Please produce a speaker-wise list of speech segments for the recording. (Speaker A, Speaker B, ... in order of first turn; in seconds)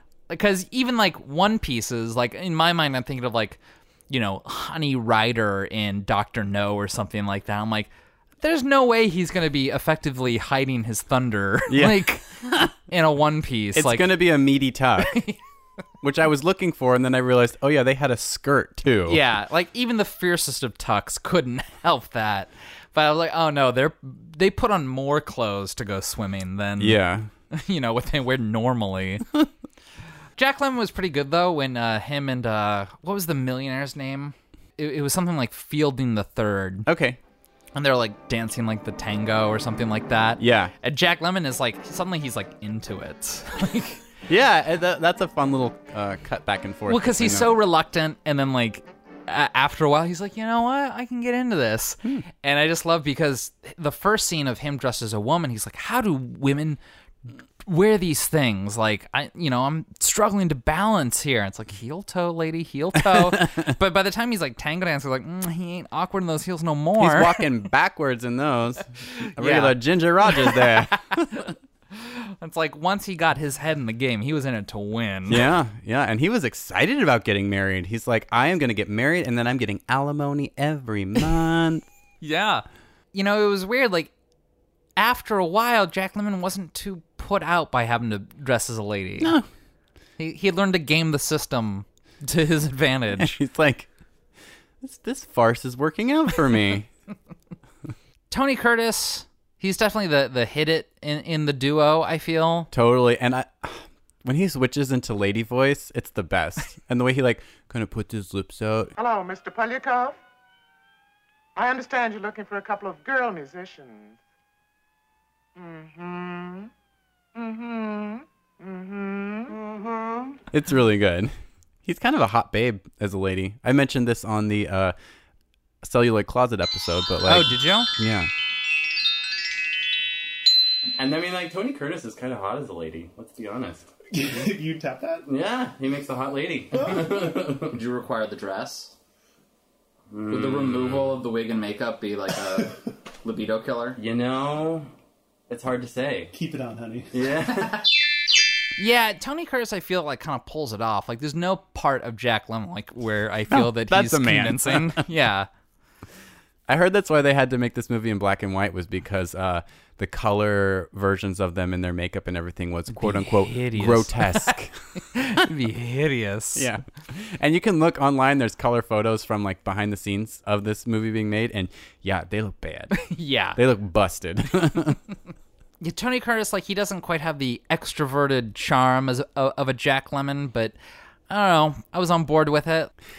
Speaker A: 0.3-7.9, 8.4-12.3, 12.9-14.1, 15.0-15.4, 19.1-27.0, 27.5-29.3, 30.4-36.9, 37.8-44.0, 46.9-56.8, 57.6-67.4, 69.2-75.4, 82.2-84.1, 85.0-89.4, 90.2-93.4, 98.3-102.7, 127.3-127.9, 137.7-138.9, 140.3-144.0, 148.8-155.5, 162.9-164.6, 165.1-166.7, 173.0-173.6, 175.8-180.8, 181.3-182.9
Speaker B: 11.7-12.7, 13.7-15.2, 16.0-19.2, 26.8-27.3, 36.9-37.2, 40.4-40.7, 44.3-47.5, 63.0-63.7, 67.0-71.5, 75.3-81.8, 89.2-89.5, 93.1-93.9, 94.8-96.9, 102.7-108.9, 120.5-124.9, 125.8-128.3, 130.9-134.5, 135.3-137.8, 140.1-141.2, 143.9-144.9, 145.5-146.3, 147.1-147.8, 153.5-155.0, 156.7-165.0, 166.6-175.0
Speaker C: 109.0-110.2, 111.5-114.1, 115.6-116.7, 117.3-120.3
Speaker D: 134.1-135.3, 146.3-147.2